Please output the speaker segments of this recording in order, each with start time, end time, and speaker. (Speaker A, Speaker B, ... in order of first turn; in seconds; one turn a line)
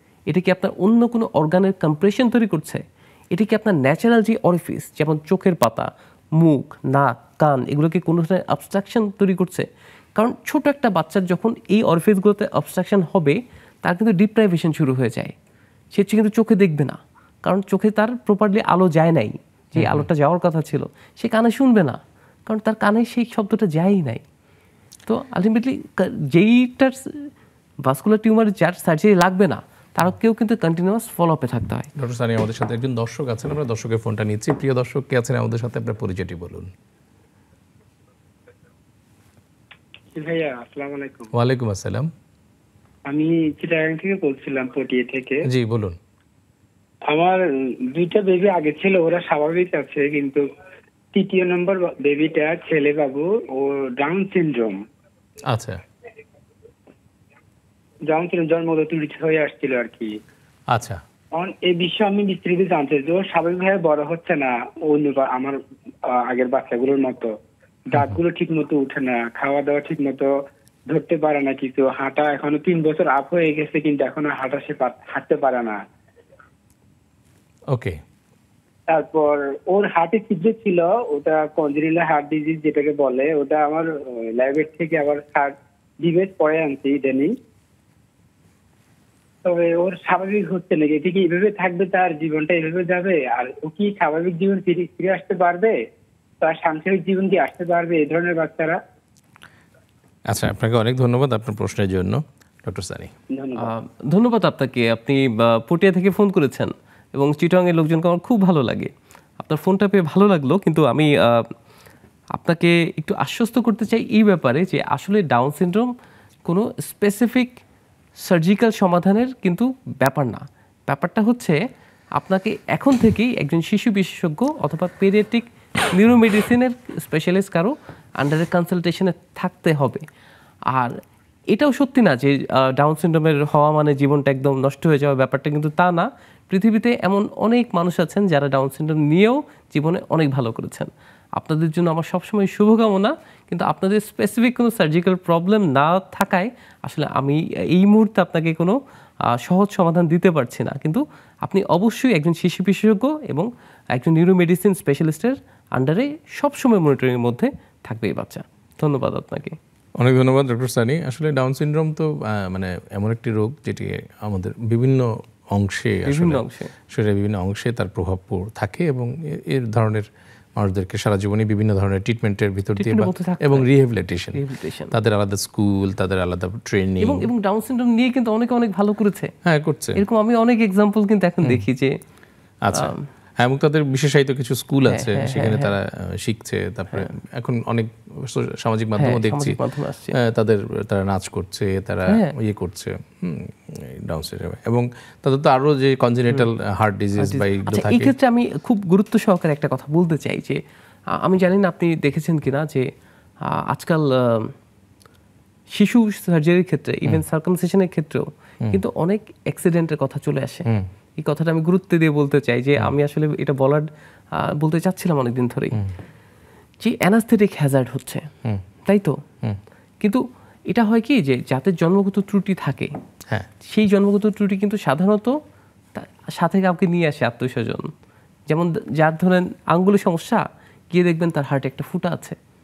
Speaker A: 0.3-15.3
Speaker A: 15.9-24.2
Speaker B: 19.8-20.1
Speaker A: 25.1-27.3
Speaker A: 27.8-31.9
Speaker B: 31.9-36.7
Speaker C: 40.1-41.3
Speaker B: 41.3-42.1
Speaker C: 43.1-45.5
Speaker B: 45.4-46.0
Speaker C: 47.1-50.5
Speaker C: 51.1-54.8
Speaker B: 55.5-55.8
Speaker C: 58.1-60.2
Speaker B: 60.7-61.0
Speaker C: 61.4-67.3
Speaker C: 67.9-70.3
Speaker C: 70.9-75.8
Speaker B: 77.7-78.0
Speaker C: 78.9-87.4
Speaker C: 89.4-95.8
Speaker C: 96.4-98.8
Speaker B: 100.3-103.1
Speaker C: 103.3-103.7
Speaker A: 103.6-111.5
Speaker A: 112.3-115.9
Speaker A: 116.5-117.6
Speaker A: 118.2-121.6
Speaker A: 122.2-130.1
Speaker A: 130.7-131.0
Speaker A: 131.5-159.6
Speaker B: 160.0-177.3
Speaker A: 166.1-166.7
Speaker A: 172.8-173.7
Speaker A: 174.3-174.9
Speaker A: 177.0-179.3
Speaker B: 179.4-180.0
Speaker A: 179.9-182.0
Speaker B: 182.6-189.6
Speaker A: 182.7-183.1
Speaker A: 184.9-185.7
Speaker A: 189.0-190.2
Speaker B: 190.1-198.1
Speaker A: 192.1-192.3
Speaker A: 197.2-200.6
Speaker A: 201.1-202.9
Speaker A: 203.4-204.6
Speaker A: 205.7-215.9
Speaker A: 216.8-218.3
Speaker A: 218.9-219.2
Speaker A: 220.0-222.9
Speaker A: 223.6-225.4
Speaker A: 225.9-227.9
Speaker A: 228.5-232.4